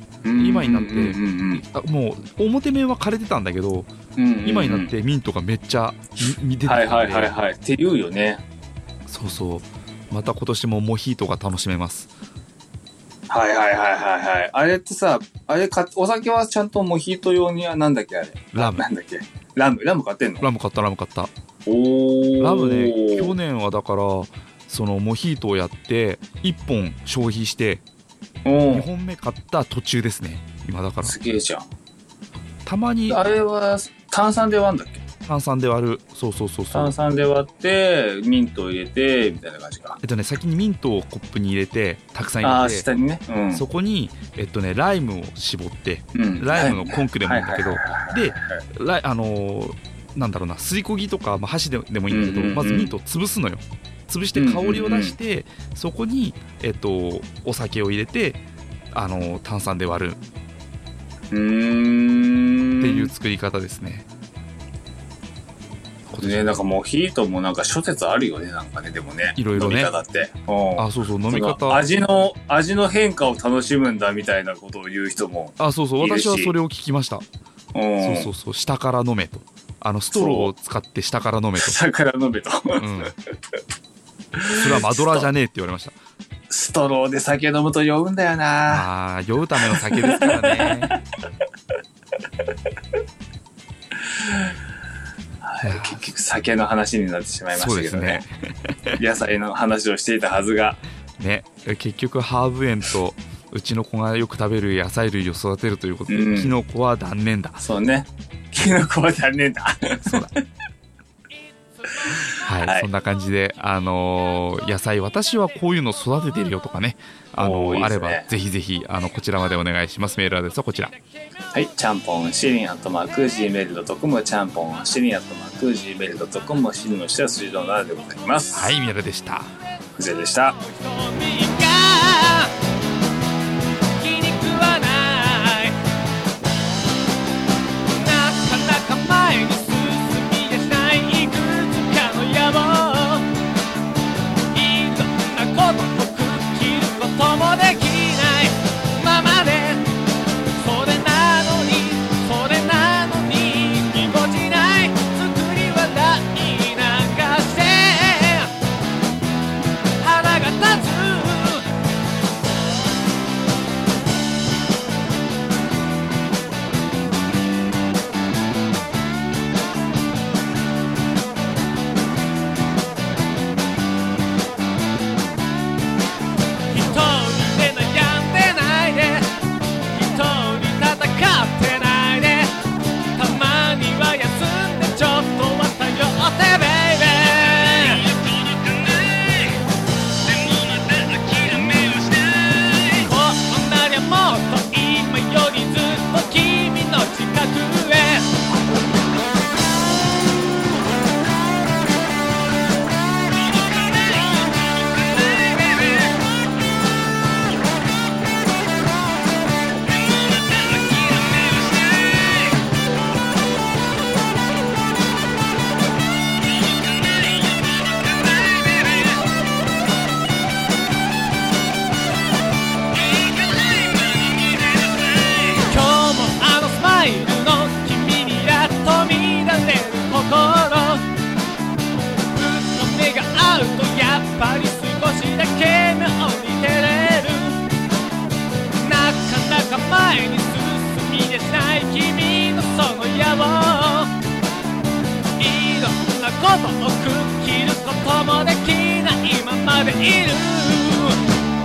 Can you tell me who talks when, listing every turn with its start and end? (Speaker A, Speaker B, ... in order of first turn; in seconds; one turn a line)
Speaker A: 0.2-1.6
Speaker B: 0.3-3.9
Speaker A: 4.2-4.9
Speaker B: 4.5-7.4
Speaker A: 6.7-8.4
Speaker B: 9.1-12.1
Speaker A: 13.3-20.5
Speaker B: 18.5-18.9
Speaker B: 20.4-21.3
Speaker A: 21.7-23.4
Speaker B: 22.4-27.8
Speaker A: 28.5-28.9
Speaker B: 28.7-31.1
Speaker A: 31.0-31.7
Speaker B: 32.6-33.3
Speaker A: 33.1-35.0
Speaker B: 35.3-36.9
Speaker A: 36.7-40.0
Speaker B: 40.0-42.9
Speaker A: 42.4-43.6
Speaker B: 43.5-58.4
Speaker A: 46.1-48.6
Speaker A: 52.1-52.9
Speaker A: 54.4-55.2
Speaker B: 58.9-60.2
Speaker A: 61.3-63.1
Speaker B: 62.8-64.0
Speaker B: 66.1-66.6
Speaker A: 66.2-76.5
Speaker B: 69.4-69.9
Speaker B: 70.8-71.8
Speaker B: 75.6-77.2
Speaker A: 77.7-78.3
Speaker B: 78.0-81.8
Speaker A: 80.1-80.5
Speaker A: 81.6-83.1
Speaker B: 82.8-83.1
Speaker A: 84.4-85.3
Speaker B: 84.5-86.0
Speaker A: 86.5-88.9
Speaker B: 88.7-90.9
Speaker A: 89.6-91.0
Speaker A: 94.2-94.5
Speaker A: 95.4-98.2
Speaker B: 95.6-96.0
Speaker B: 97.5-99.0
Speaker A: 99.0-100.8
Speaker B: 101.2-107.6
Speaker A: 106.1-106.6
Speaker A: 107.6-110.4
Speaker B: 110.0-110.3
Speaker A: 112.1-112.9
Speaker B: 112.4-121.0
Speaker A: 117.4-118.3
Speaker A: 121.5-128.8
Speaker B: 128.5-129.5
Speaker A: 129.9-130.6
Speaker C: 130.8-132.5
Speaker C: 134.0-135.8
Speaker C: 137.9-143.3
Speaker C: 144.5-149.9
Speaker C: 150.5-158.5
Speaker C: 160.0-161.7
Speaker C: 176.7-179.3
Speaker C: 179.9-182.6
Speaker C: 183.2-189.6
Speaker C: 190.3-198.3
Speaker C: 203.8-205.9
Speaker C: 218.2-219.0
Speaker C: 223.0-231.1
Speaker C: 232.3-237.6
Speaker C: 238.8-244.1
Speaker C: 245.4-251.2